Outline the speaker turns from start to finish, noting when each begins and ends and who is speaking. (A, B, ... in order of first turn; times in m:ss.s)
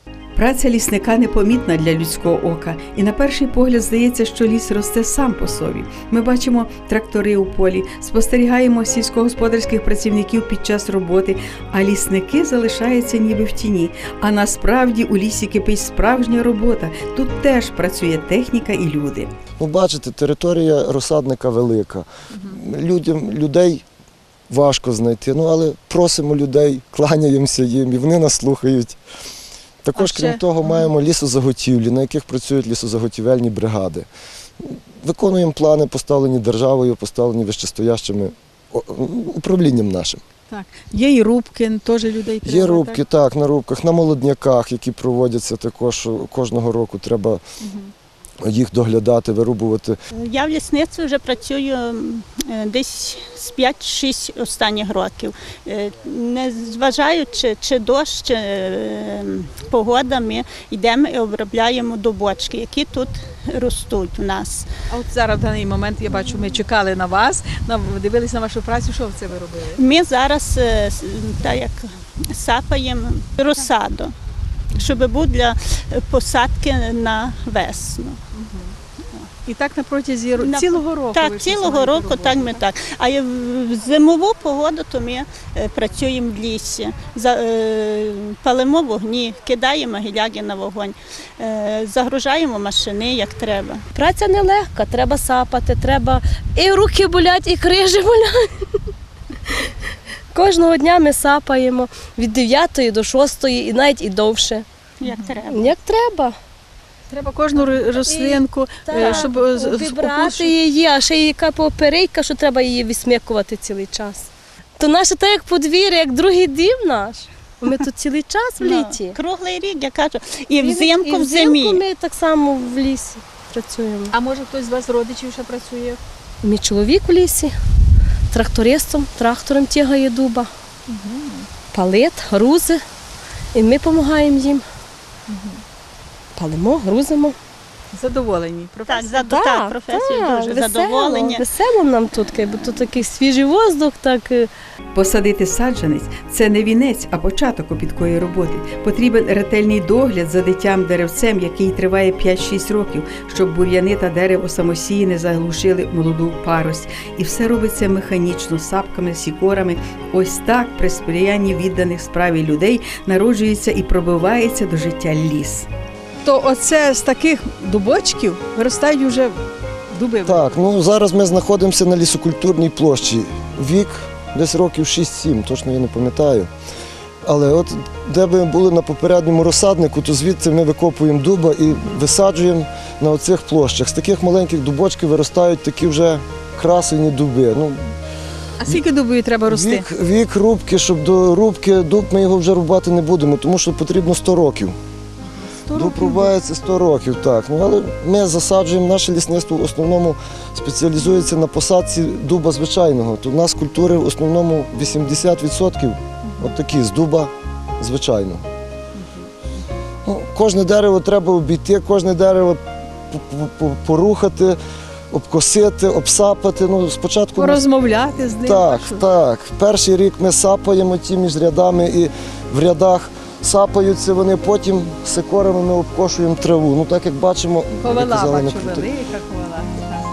0:00.4-0:19.3 A
0:19.6-0:23.8 B
0:24.5-0:29.0 B
0:29.8-0:34.1 B
0:30.0-0:30.8 C
0:34.6-0:40.2 B
0:40.5-0:43.0 C
0:42.4-0:47.4 B
0:48.4-0:50.0 B
0:50.2-1:04.7 D
1:04.9-1:09.8 C
1:09.8-1:14.2 D
1:14.8-1:15.0 C
1:14.8-1:18.2 D
1:18.4-1:18.7 C
1:19.5-1:22.6 C
1:21.2-1:21.9 E
1:21.3-1:34.0 D
1:34.0-1:38.4 E
1:40.3-1:44.7 E
1:45.4-1:46.4 E
1:45.5-1:45.8 D
1:47.1-1:50.5 C
1:48.0-1:54.2 E
1:54.8-1:59.2 E
1:58.6-2:01.8 D
2:00.6-2:04.0 E
2:04.2-2:06.0 C
2:06.4-2:07.5 E
2:08.3-2:10.5 E
2:11.0-2:11.4 C
2:11.7-2:12.8 E
2:13.5-2:14.6 E
2:16.4-2:17.4 E
2:18.0-2:19.3 C
2:18.9-2:21.6 D
2:19.3-2:24.5 E
2:24.9-2:45.7 A
2:46.2-2:49.4 C
2:49.9-2:50.5 C
2:50.2-2:56.5 B
2:57.3-3:07.8 B
3:08.6-3:09.9 C
3:09.4-3:14.8 B
3:15.3-3:16.3 C
3:15.7-3:28.4 B
3:30.1-3:32.6 B
3:33.1-3:34.6 B
3:35.1-3:37.7 B
3:37.4-3:39.0 C
3:38.4-3:48.9 B
3:47.8-3:49.8 C